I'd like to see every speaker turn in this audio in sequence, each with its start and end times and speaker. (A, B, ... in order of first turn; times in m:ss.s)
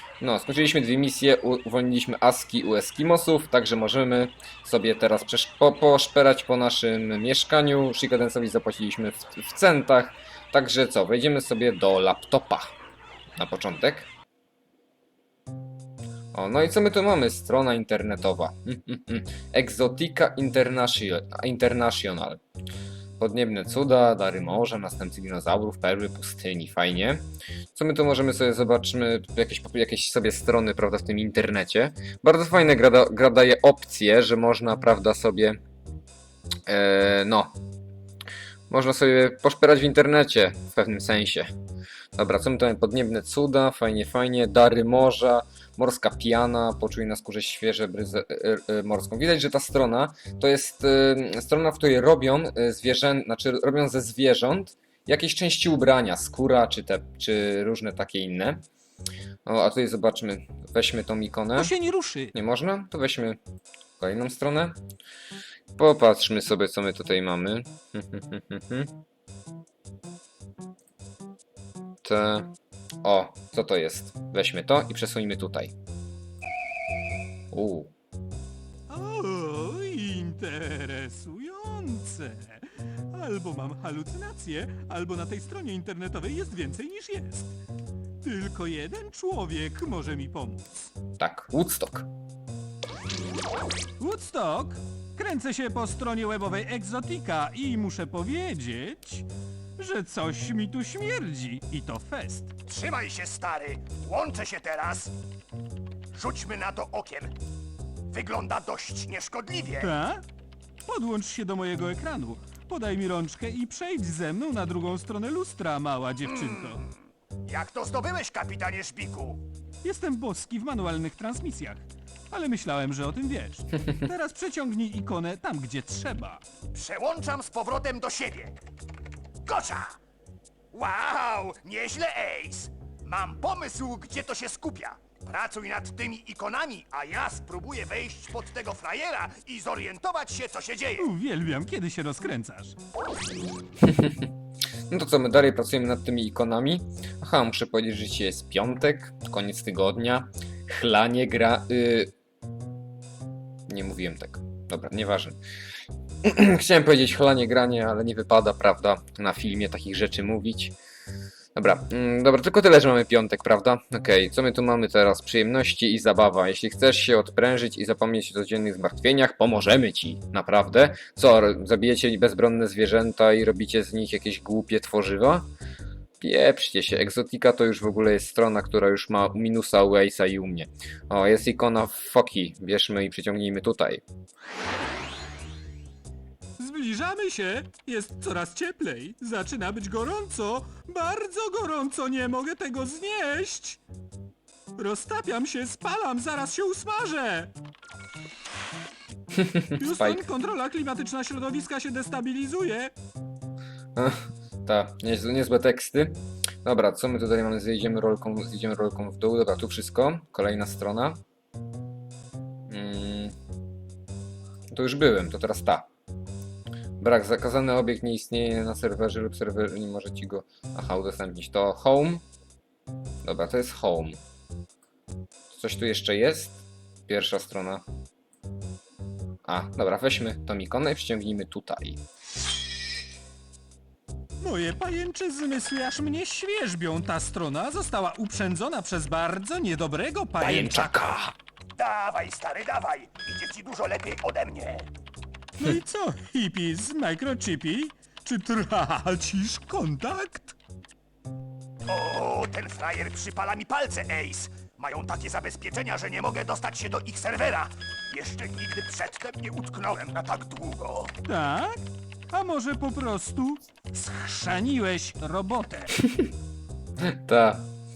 0:00.2-0:12.7 A
0:13.4-0:14.1 A
0:16.3-0:22.4 A
0:23.2-0:35.6 A
0:36.7-0:37.5 A
0:38.7-0:41.5 A
0:42.2-0:58.6 A
0:59.5-1:01.7 A
1:01.6-1:02.3 B
1:02.3-1:03.4 A
1:04.0-1:04.8 A
1:05.8-1:08.9 A
1:12.0-1:12.5 A
1:13.0-1:15.7 A
1:17.5-1:17.9 A
1:18.9-1:27.6 B
1:28.2-1:30.9 B
1:31.2-1:32.1 A
1:34.0-1:39.3 B
1:39.8-1:42.5 B
1:42.7-1:45.1 C
1:46.1-1:47.3 C
1:48.1-1:49.9 C
1:49.8-1:50.2 B
1:50.9-1:56.8 B
1:56.4-1:56.9 C
1:57.4-1:59.4 C
1:59.8-2:06.4 B
2:06.7-2:08.6 C
2:09.4-2:10.0 C
2:10.7-2:21.1 C
2:21.0-2:22.8 B
2:23.8-2:24.3 A
2:24.9-2:32.1 A
2:33.7-2:35.4 A
2:36.2-2:40.8 A
2:41.6-2:55.5 A
2:56.2-3:04.0 A
3:06.6-3:13.8 B
3:14.8-3:17.5 B
3:19.4-3:20.3 A
3:19.8-3:22.9 B
3:24.0-3:31.2 A
3:32.7-3:33.4 A
3:34.7-3:35.9 A
3:37.0-3:42.2 A
3:43.2-3:44.2 A
3:45.5-3:47.8 A
3:49.4-3:52.0 A
3:54.4-4:01.2 B
4:00.4-4:01.3 A
4:01.8-4:04.9 C
4:05.6-4:10.6 B
4:11.9-4:21.1 C
4:21.3-4:21.8 B
4:22.3-4:26.0 B
4:27.0-4:27.7 A